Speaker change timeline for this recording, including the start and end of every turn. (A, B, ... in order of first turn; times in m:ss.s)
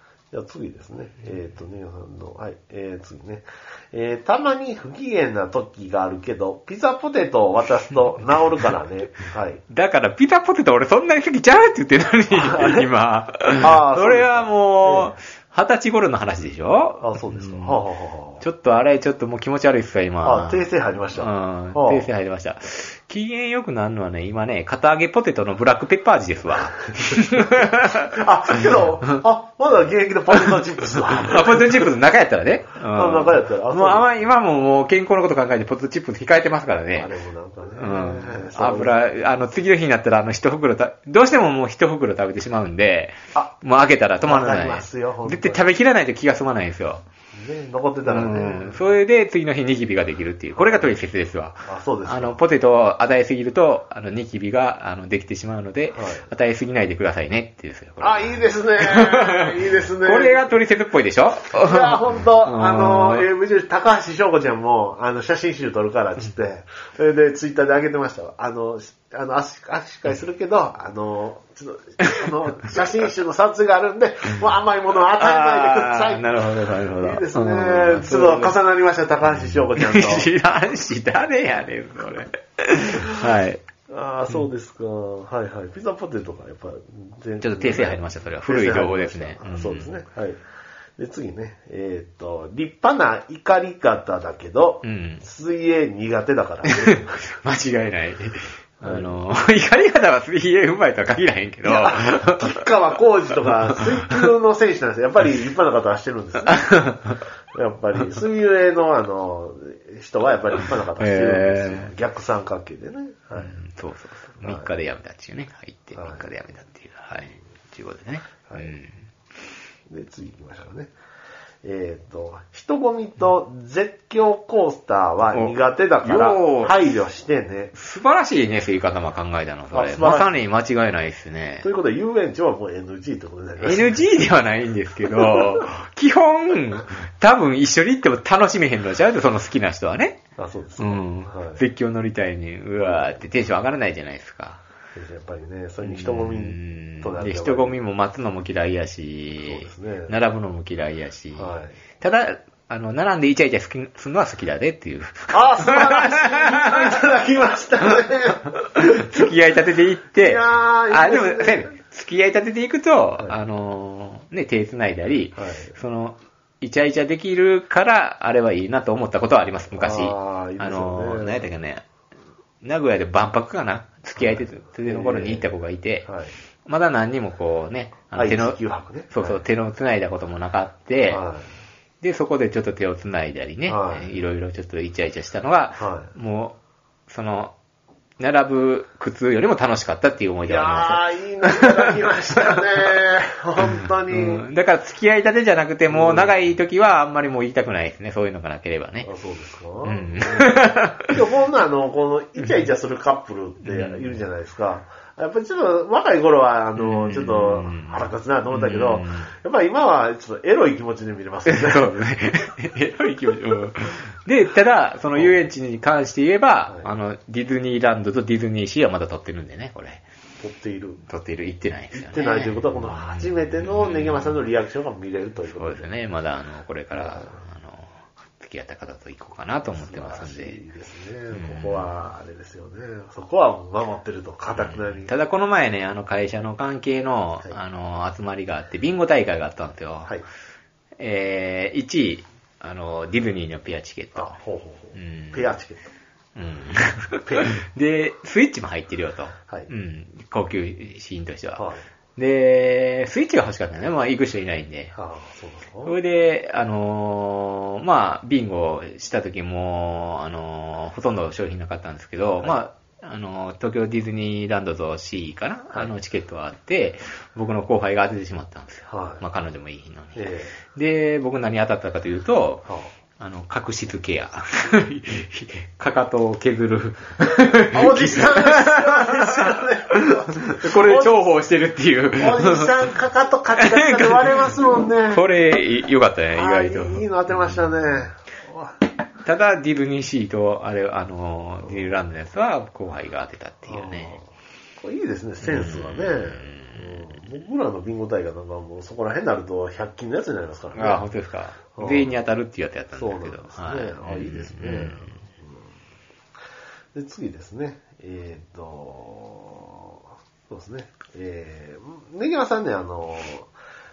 0:00.3-0:09.6 A
0:09.7-0:17.8 B
0:12.3-0:12.9 A
0:13.6-0:15.1 A
0:17.0-0:18.5 A
0:18.4-0:28.2 B
0:20.2-0:22.1 A
0:27.6-0:31.9 A
0:31.1-0:37.1 B
0:32.8-0:34.1 A
0:36.9-0:39.1 A
0:37.8-0:47.0 B
0:44.2-0:45.7 A
0:47.4-0:48.9 A
0:48.0-1:03.3 B
0:50.6-0:51.0 A
0:51.6-0:52.4 A
0:55.9-0:56.3 A
0:58.0-1:00.5 A
1:01.5-1:16.3 A
1:15.2-1:18.6 B
1:17.0-1:20.3 A
1:19.3-1:23.6 B
1:23.9-1:30.4 A
1:27.4-1:30.0 B
1:31.0-1:37.1 A
1:34.8-1:35.2 B
1:36.6-1:42.6 B
1:38.8-1:39.2 A
1:41.6-1:53.6 A
1:46.5-1:46.9 B
1:51.0-1:51.9 B
1:53.4-1:59.0 B
1:54.4-1:54.8 A
1:56.0-1:56.3 A
1:58.5-1:58.7 A
1:59.9-2:00.9 A
2:01.6-2:07.7 A
2:05.3-2:06.8 B
2:07.7-2:11.7 B
2:09.7-2:10.4 A
2:11.6-2:14.1 A
2:13.6-2:20.2 B
2:15.2-2:15.6 A
2:20.4-2:21.6 A
2:20.8-2:24.6 B
2:22.8-2:23.4 A
2:25.0-2:27.8 A
2:25.8-2:37.0 B
2:29.4-2:30.2 A
2:31.4-2:31.8 A
2:35.3-2:39.2 A
2:38.4-2:51.8 B
2:40.2-2:41.7 A
2:45.4-2:45.8 A
2:49.7-2:51.5 A
2:52.6-2:56.1 B
2:54.2-2:56.3 A
2:56.6-2:58.6 B
2:58.2-2:59.4 A
2:59.1-3:01.2 B
3:01.1-3:01.5 A
3:02.0-3:06.6 B
3:03.7-3:04.1 A
3:05.8-3:06.1 A
3:07.1-3:07.6 B
3:08.2-3:13.0 B
3:10.4-3:14.4 A
3:13.8-3:19.1 B
3:15.9-3:16.6 A
3:19.0-3:32.1 A
3:19.8-3:21.2 B
3:23.6-3:24.2 B
3:26.8-3:29.3 B
3:31.5-3:40.0 B
3:35.2-3:35.4 A
3:40.4-3:41.0 A
3:41.1-3:44.4 B
3:41.9-3:45.9 A
3:45.5-3:50.6 B
3:46.9-3:47.3 A
3:49.6-3:55.1 A
3:51.3-3:52.0 B
3:54.5-4:00.2 B
4:01.0-4:04.4 B
4:04.2-4:05.9 A
4:05.0-4:05.4 B
4:06.4-4:11.7 B
4:07.2-4:07.6 A
4:11.6-4:11.8 A
4:12.2-4:14.9 B
4:14.9-4:16.0 A
4:15.8-4:32.7 B
4:28.9-4:29.3 A
4:30.2-4:30.6 A
4:33.2-4:42.9 B
4:37.7-4:41.3 A
4:42.2-4:45.2 A
4:43.6-4:48.1 B
4:46.3-4:48.7 A
4:49.2-4:54.2 B
4:53.7-4:54.2 A
4:54.8-5:01.1 A
4:55.4-4:57.0 B
5:00.7-5:05.2 B
5:01.8-5:02.2 A
5:02.9-5:05.5 A
5:06.9-5:13.5 A